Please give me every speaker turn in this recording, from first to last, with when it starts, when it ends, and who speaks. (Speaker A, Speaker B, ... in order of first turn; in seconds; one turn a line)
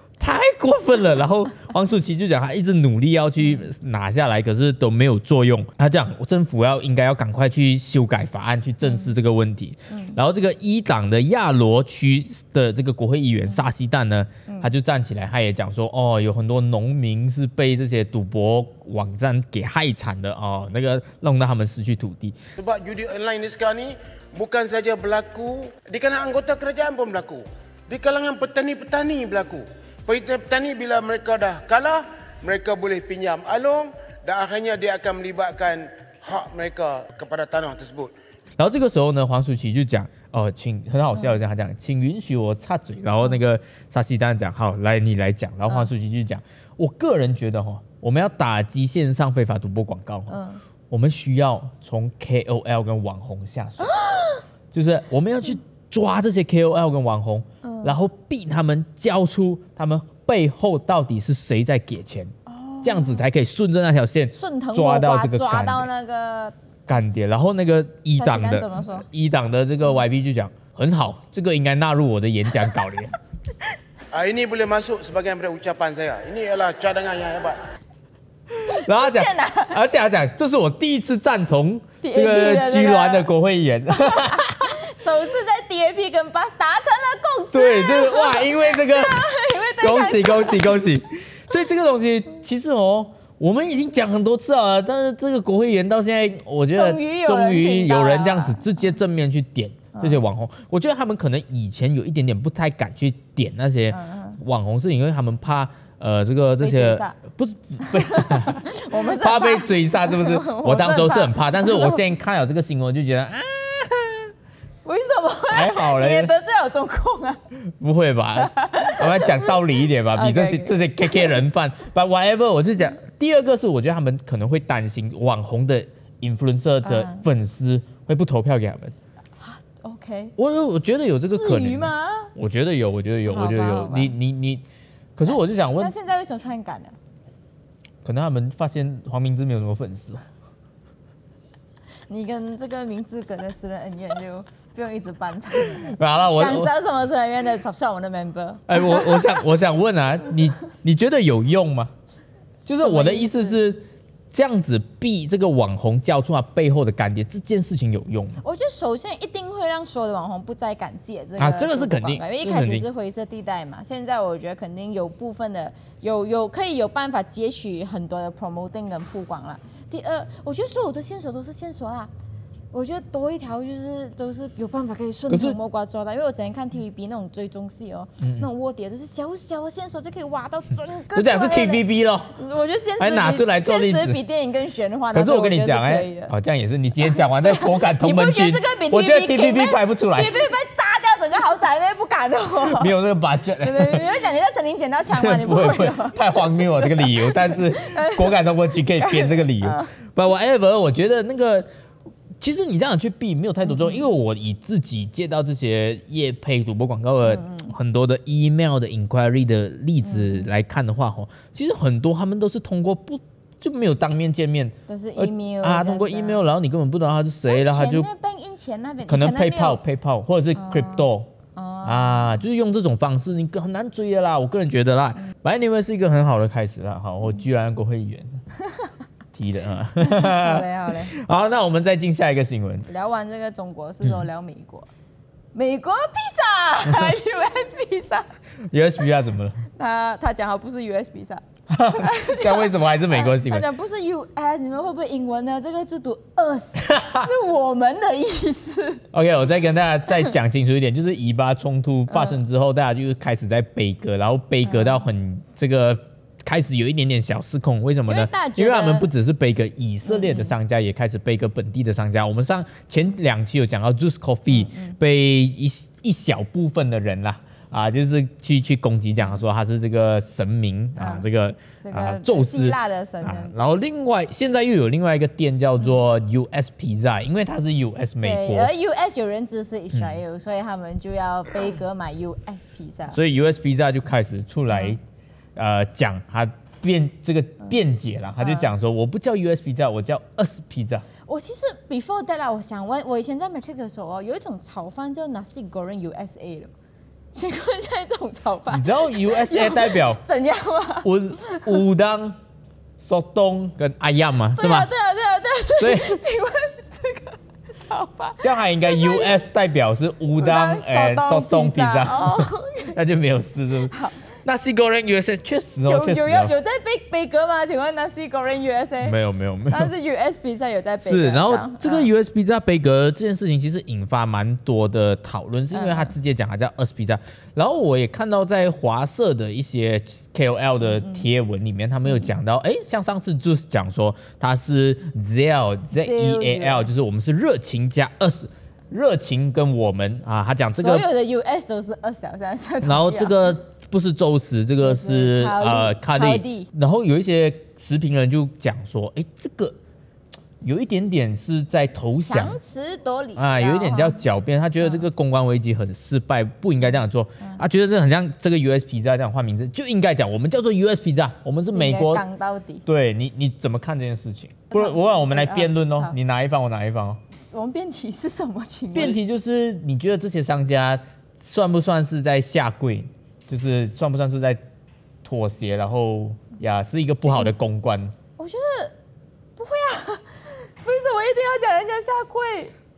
Speaker A: 0.2-22.4
Speaker B: 3.4-3.6
Speaker B: 8.8-9.1
Speaker B: 9.9-10.2
Speaker C: 22.6-38.1
Speaker A: 38.6-50.4
Speaker B: 41.1-41.4
Speaker B: 50.3-50.6
Speaker A: 50.9-54.0
Speaker B: 53.8-54.4
Speaker A: 54.7-65.9
Speaker B: 57.6-58.0
Speaker B: 62.5-63.2
Speaker B: 64.3-66.5
Speaker A: 66.9-73.1
Speaker B: 68.2-69.0
Speaker C: 74.1-77.6
Speaker A: 78.5-84.7
Speaker B: 78.7-79.8
Speaker B: 82.0-83.3
Speaker B: 83.9-90.8
Speaker A: 87.5-89.2
Speaker A: 89.8-114.3
Speaker B: 96.7-98.7
Speaker B: 99.9-100.2
Speaker B: 103.9-104.4
Speaker B: 106.6-107.1
Speaker B: 107.8-112.0
Speaker B: 114.8-117.4
Speaker A: 115.5-116.3
Speaker A: 117.8-128.9
Speaker B: 118.4-121.4
Speaker B: 126.8-127.2
Speaker B: 129.4-130.3
Speaker A: 130.4-134.6
Speaker B: 131.3-132.3
Speaker B: 133.2-134.1
Speaker A: 135.2-135.9
Speaker B: 135.3-136.9
Speaker A: 138.0-140.2
Speaker B: 142.1-149.4
Speaker A: 145.9-146.7
Speaker A: 148.7-151.9
Speaker A: 152.6-158.4
Speaker B: 152.8-153.6
Speaker B: 158.4-172.1
Speaker A: 161.4-162.9
Speaker B: 172.7-186.3
Speaker A: 175.3-175.6
Speaker A: 178.2-178.5
Speaker A: 181.1-182.3
Speaker A: 183.0-184.2
Speaker A: 185.1-190.4
Speaker B: 187.0-192.9
Speaker A: 192.7-194.1
Speaker B: 193.6-199.9
Speaker A: 195.1-201.7
Speaker A: 202.4-218.1
Speaker B: 203.6-204.1
Speaker B: 207.2-207.7
Speaker B: 210.0-210.5
Speaker B: 214.9-216.4
Speaker B: 217.4-219.8
Speaker A: 219.1-221.3
Speaker B: 220.5-222.4
Speaker A: 221.8-228.4
Speaker B: 228.6-228.9
Speaker A: 229.3-232.9
Speaker B: 230.0-231.1
Speaker B: 232.9-234.9
Speaker B: 235.5-238.3
Speaker A: 238.7-239.6
Speaker B: 239.7-249.0
Speaker A: 241.7-243.6
Speaker A: 246.8-247.3
Speaker A: 249.1-278.7
Speaker B: 252.1-252.4
Speaker B: 254.6-255.0
Speaker B: 258.1-259.1
Speaker B: 260.1-260.5
Speaker B: 264.5-265.0
Speaker B: 271.0-271.3
Speaker B: 271.8-273.6
Speaker B: 278.2-283.2
Speaker A: 283.1-285.0
Speaker B: 284.7-284.9
Speaker A: 285.6-291.1
Speaker B: 288.4-288.7
Speaker B: 291.2-296.7
Speaker B: 297.3-301.8
Speaker A: 298.7-300.2
Speaker A: 301.0-302.4
Speaker A: 303.0-304.9
Speaker B: 304.5-309.4
Speaker A: 305.7-306.2
Speaker A: 308.4-316.5
Speaker B: 310.4-312.9
Speaker B: 313.9-314.2
Speaker B: 315.8-319.2
Speaker A: 319.0-319.9
Speaker B: 319.7-322.1
Speaker A: 321.0-341.1
Speaker B: 325.7-326.1
Speaker B: 330.8-331.2
Speaker B: 335.9-336.9
Speaker B: 340.7-343.5
Speaker A: 342.8-349.8
Speaker B: 344.8-346.7
Speaker A: 350.6-352.6
Speaker B: 352.3-354.2
Speaker A: 353.4-362.2
Speaker B: 361.7-362.8
Speaker A: 362.9-367.2
Speaker B: 364.7-366.1
Speaker B: 367.5-369.2
Speaker A: 368.9-374.6
Speaker A: 375.2-378.1
Speaker B: 378.4-378.9
Speaker B: 379.6-382.7